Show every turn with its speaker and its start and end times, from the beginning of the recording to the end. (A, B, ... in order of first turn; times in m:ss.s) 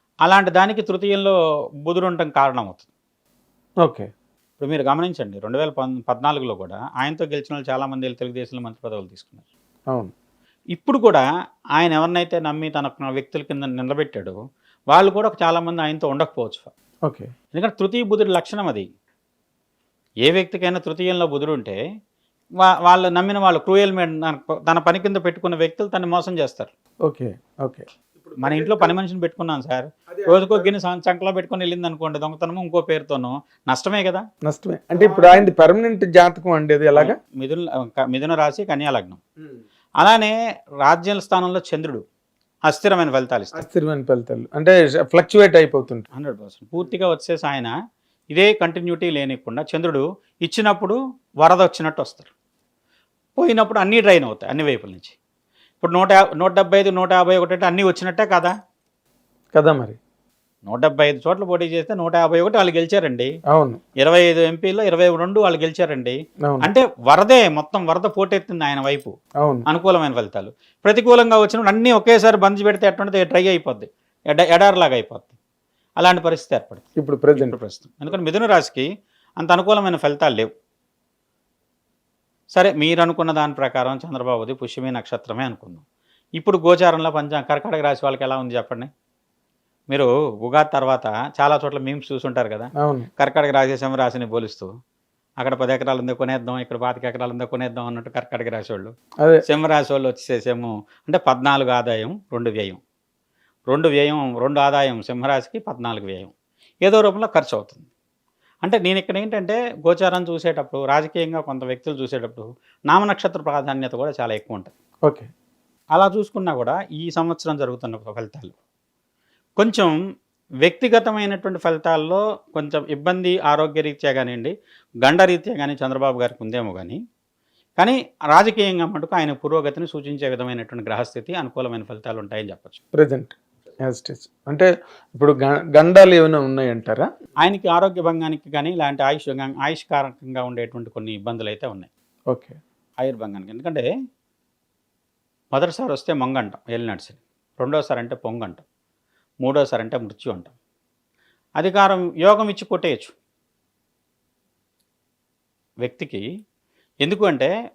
0:00.2-0:02.9 A
0:03.8-0:04.1 B
0:04.6-0:09.4 A
0:10.7-0:11.2 A
0:11.8-0:14.4 A
0:14.9-0:16.7 A
0:17.5-0:18.8 A
0:20.2-0:21.8 A
0:22.6-0:26.7 A
0:27.1-0:29.0 B
0:28.4-0:34.2 A
0:30.1-0:30.7 B
0:34.4-0:37.2 B
0:34.9-0:35.5 A
0:37.0-0:39.2 A
0:40.0-0:42.0 A
0:42.7-0:43.6 A
0:43.6-0:46.0 B
0:46.1-0:47.7 A
0:48.3-0:52.3 A
0:53.4-0:55.2 A
0:55.8-0:58.5 A
0:59.5-1:00.0 B
1:00.6-1:03.3 A
1:03.5-1:03.8 B
1:04.0-1:09.1 A
1:09.7-1:15.4 A
1:16.0-1:18.9 A
1:17.0-1:17.6 B
1:19.4-1:20.5 A
1:22.5-1:25.8 A
1:26.4-1:28.9 A
1:29.9-1:34.7 A
1:32.8-1:33.1 B
1:35.4-1:38.9 A
1:39.5-1:42.8 A
1:43.7-1:46.3 A
1:46.8-1:47.9 A
1:48.6-1:54.7 A
1:55.9-1:58.5 A
1:59.6-1:59.9 A
2:00.6-2:07.0 A
2:07.8-2:12.8 A
2:12.9-2:17.1 B
2:17.4-2:21.9 A
2:22.3-2:22.6 B
2:23.0-2:23.9 A
2:25.5-2:28.6 A
2:29.4-2:30.5 A
2:31.6-2:33.1 A
2:35.8-2:36.2 A
2:37.0-2:37.5 A